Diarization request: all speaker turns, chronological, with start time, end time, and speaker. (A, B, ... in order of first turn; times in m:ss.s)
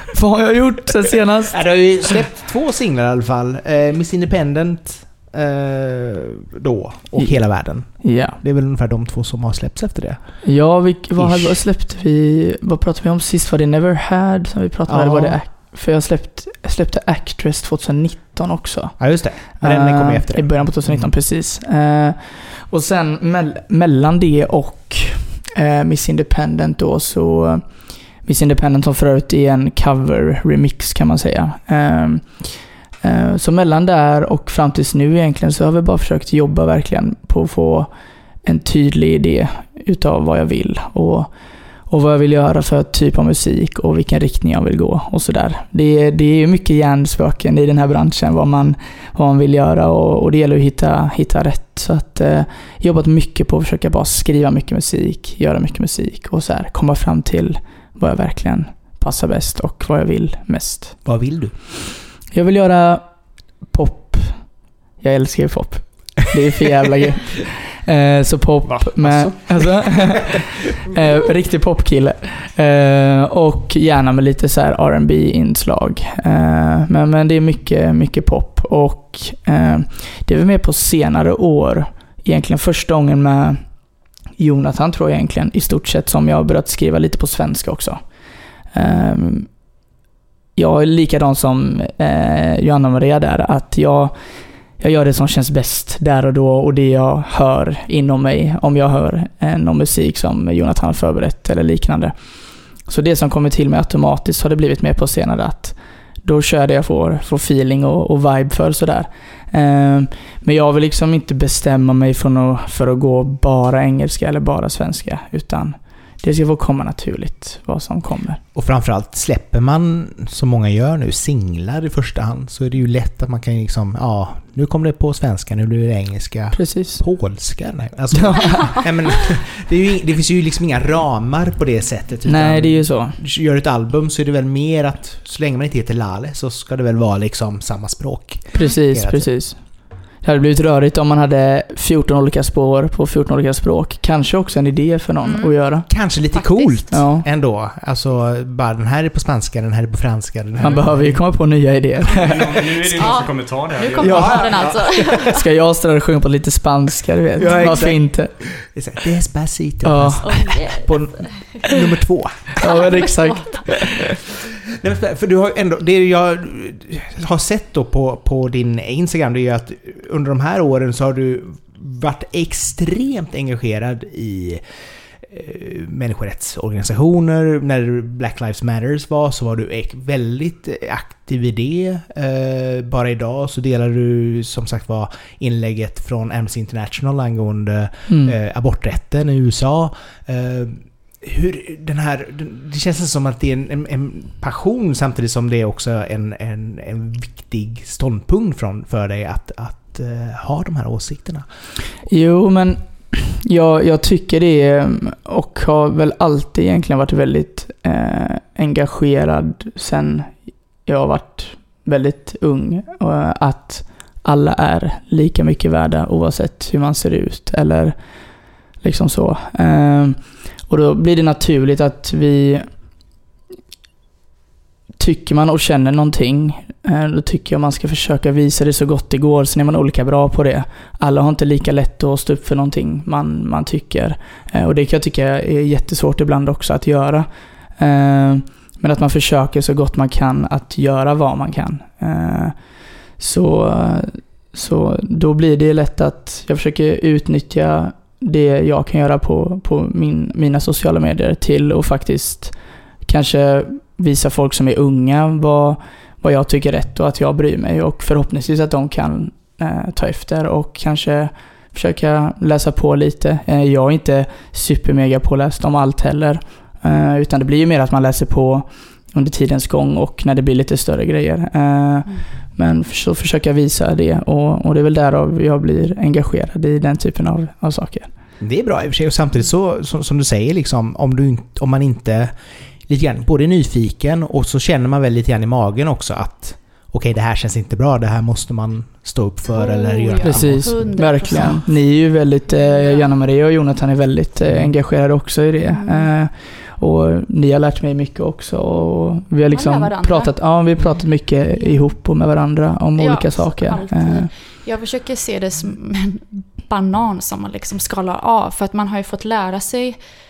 0:00.1-0:01.8 A
0:01.5-0:10.6 B
0:07.2-0:08.4 A
0:10.4-1:01.2 A
0:11.2-0:11.6 B
0:14.9-0:15.4 B
0:19.0-0:21.1 B
1:01.0-1:01.6 B
1:02.3-1:29.8 A
1:08.6-1:10.2 C
1:28.8-1:29.1 D
1:30.5-1:58.4 A
1:58.5-2:19.3 B
2:06.5-2:07.0 A
2:08.1-2:08.7 A
2:08.4-2:08.8 D
2:12.3-2:13.2 A
2:18.5-2:18.8 D
2:18.5-2:25.9 A
2:25.2-2:27.0 D
2:25.9-2:31.3 B
2:26.9-2:27.2 A
2:30.6-2:32.6 A
2:32.0-2:34.5 C
2:33.0-2:35.4 D
2:34.0-2:35.2 B
2:34.0-2:38.3 A
2:37.4-2:42.7 B
2:37.5-2:37.9 D
2:39.8-2:40.6 A
2:40.2-2:41.6 D
2:42.6-2:44.1 D
2:42.6-2:44.1 A
2:44.7-2:54.6 B
2:55.3-3:21.4 B
3:08.1-3:08.4 A
3:22.0-3:42.9 A
3:45.0-4:38.2 A
4:38.4-4:51.6 B
4:49.5-4:53.1 D
4:50.2-5:04.3 A
4:54.4-4:54.7 B
4:55.6-4:56.1 D
4:59.5-5:00.4 D
5:01.5-5:02.0 D
5:03.0-5:10.0 D